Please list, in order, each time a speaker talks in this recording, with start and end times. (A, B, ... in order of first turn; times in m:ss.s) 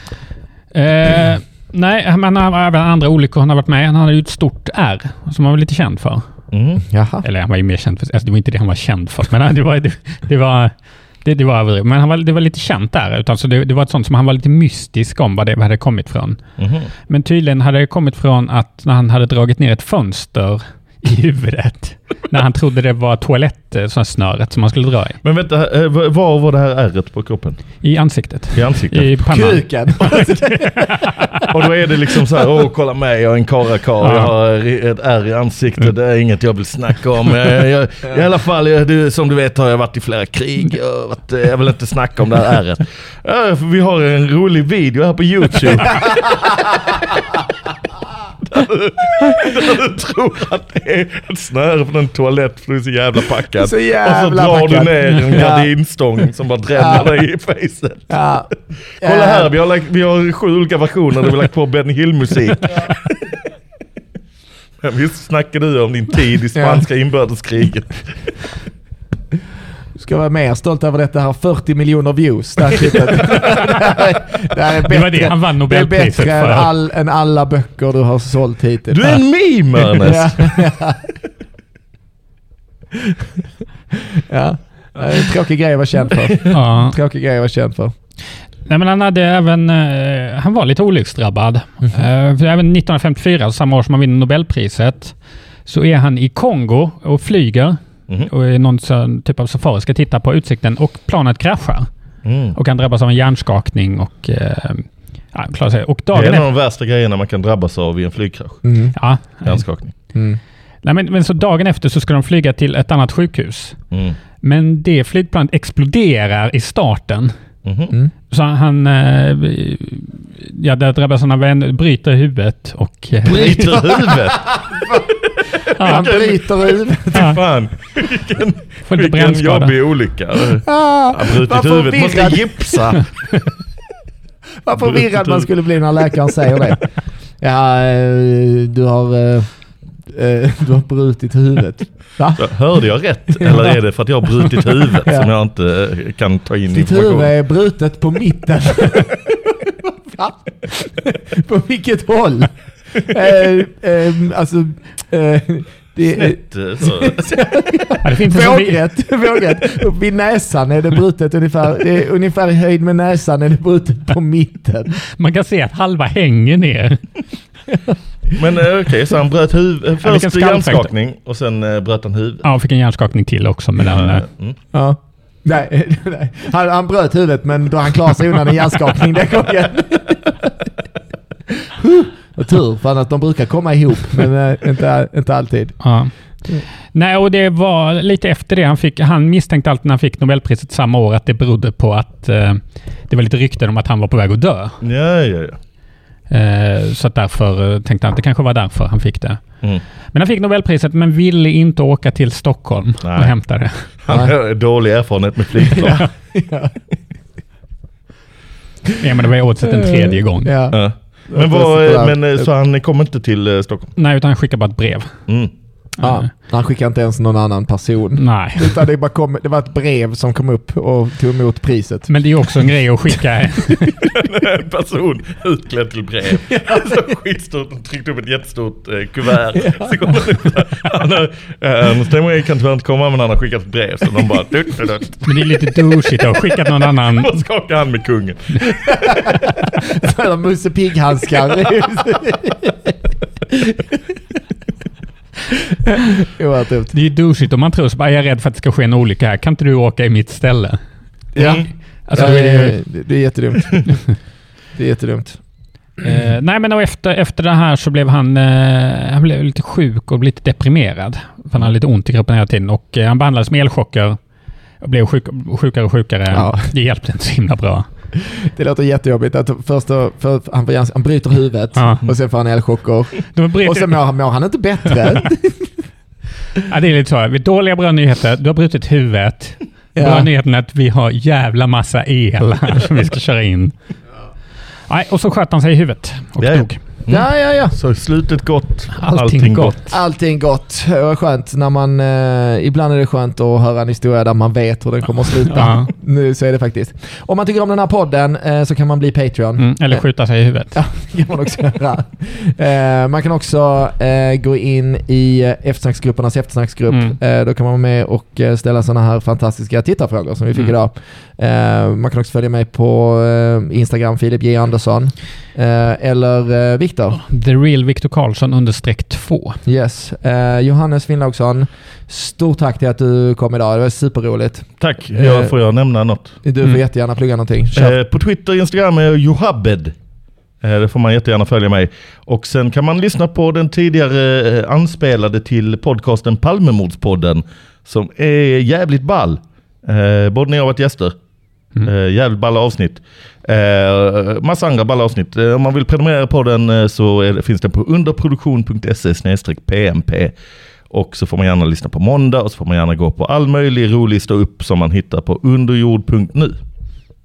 0:00.7-0:06.3 A
0:06.5-0:06.8 B
0:06.9-0:07.3 C
0:07.2-0:16.4 A
0:16.6-0:16.9 B
0:17.1-0:25.2 A
0:25.2-0:27.6 B
0:27.8-0:30.3 A
0:28.5-0:29.2 B
0:29.3-0:31.2 C
0:31.5-0:46.9 B
0:34.0-0:34.3 A
0:48.5-0:58.1 B
0:53.6-0:55.7 C
0:56.8-0:57.1 C
0:58.1-0:59.5 C
0:59.0-1:03.0 B
1:04.8-1:08.1 B
1:06.6-1:06.8 C
1:10.0-1:19.2 C
1:14.8-1:16.7 A
1:18.9-1:20.6 B
1:19.8-1:21.1 C
1:24.3-1:27.9 C
1:26.5-1:27.0 A
1:28.7-1:41.9 A
1:42.2-1:42.6 B
1:42.6-1:46.5 A
1:46.1-1:48.6 B
1:48.6-1:49.0 C
1:48.9-1:49.6 A
1:49.4-1:49.9 B
1:50.1-1:50.4 C
1:50.8-1:53.8 A
1:53.9-1:54.2 B
1:54.4-1:57.3 A
1:57.6-1:57.9 B
1:58.3-2:03.9 A
2:03.2-2:13.1 B
2:04.1-2:05.0 C
2:05.7-2:07.4 C
2:05.8-2:06.3 A
2:08.9-2:09.8 A
2:10.6-2:13.0 C
2:14.6-2:16.9 C
2:14.8-2:15.5 B
2:17.4-2:19.5 C
2:20.1-2:23.8 C
2:22.4-2:27.3 B
2:25.0-2:25.3 C
2:26.7-2:45.0 C
2:36.1-2:37.2 B
2:38.0-2:38.8 A
2:45.1-2:47.0 A
2:48.4-2:52.4 B
2:50.0-2:50.9 A
2:52.4-2:54.3 A
2:53.9-2:54.6 B
2:54.7-3:00.4 C
3:01.7-3:05.8 C
3:05.8-3:06.1 A
3:06.9-3:14.8 A
3:14.8-3:15.6 B
3:16.3-3:19.4 A
3:20.1-3:23.8 A
3:23.0-3:23.4 B
3:24.0-3:26.0 B
3:24.1-3:24.4 C
3:25.6-3:26.7 C
3:29.0-3:30.6 A
3:29.8-3:32.5 C
3:30.7-3:33.9 B
3:34.0-3:35.1 A
3:36.0-3:36.3 A
3:36.0-3:42.1 C
3:38.2-3:38.8 A
3:42.1-3:44.0 A
3:44.0-3:58.7 B
3:46.5-3:46.8 C
3:49.6-3:50.0 C
3:55.2-3:57.4 A
3:58.7-4:02.9 C
4:06.3-4:06.9 C
4:06.9-4:10.8 A
4:11.4-4:14.1 C
4:11.4-4:11.7 B
4:12.1-4:12.8 A
4:14.8-4:15.4 C
4:16.0-4:24.2 A
4:24.8-4:27.9 A
4:26.3-4:26.7 C
4:28.5-4:35.7 C
4:31.8-4:32.1 A
4:33.3-4:34.0 A
4:36.6-4:43.7 A
4:40.0-4:40.3 C
4:44.9-4:46.8 A
4:46.4-4:49.9 B
4:47.1-4:47.8 C
4:49.0-4:49.9 A
4:49.9-5:00.0 C
4:55.5-4:55.9 A
4:59.6-5:00.8 A
5:00.7-5:17.2 C
5:06.9-5:07.2 A
5:17.1-5:19.6 A
5:19.7-5:25.6 C
5:24.8-5:26.4 B
5:26.4-5:28.0 C
5:27.7-5:30.0 B
5:30.6-5:41.2 B
5:41.8-5:50.4 B
5:50.9-5:56.6 B